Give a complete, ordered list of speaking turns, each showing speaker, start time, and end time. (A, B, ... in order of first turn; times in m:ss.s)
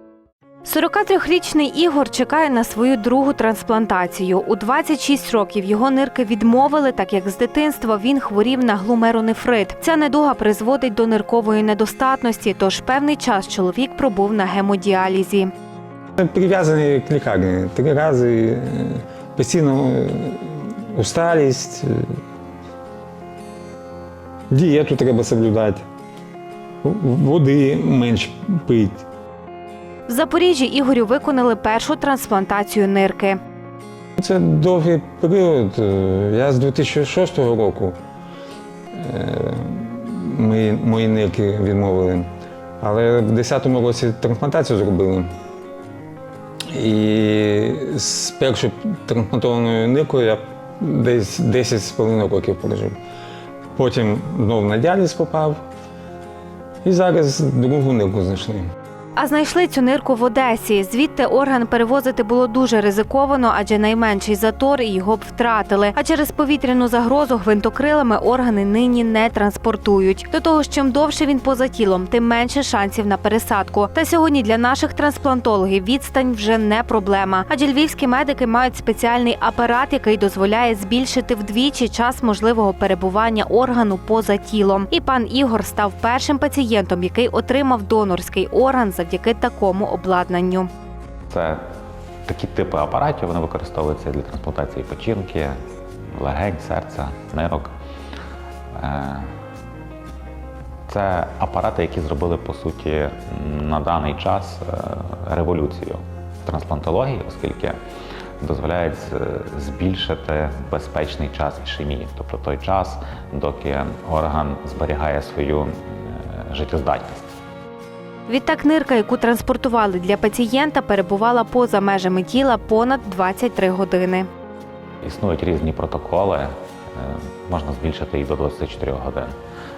0:00.6-0:15.5 A
0:16.2-0:21.9 B
0:24.5-0:25.8 B
0:26.8-0:29.0 B
0:30.1-0:33.4 A
0:34.2-0:38.0 B
0:39.0-0:42.3 B
0:42.8-0:45.3 B
0:46.7-0:53.0 B
0:53.8-0:55.6 B
0:56.8-0:58.7 B
0:59.2-1:30.7 A
1:31.3-1:31.6 C
1:32.3-1:35.6 C
1:36.2-1:37.7 C
1:38.8-1:39.3 C
1:40.9-1:47.8 C
1:48.4-1:57.3 C
1:58.3-2:04.3 A
2:05.0-2:09.3 C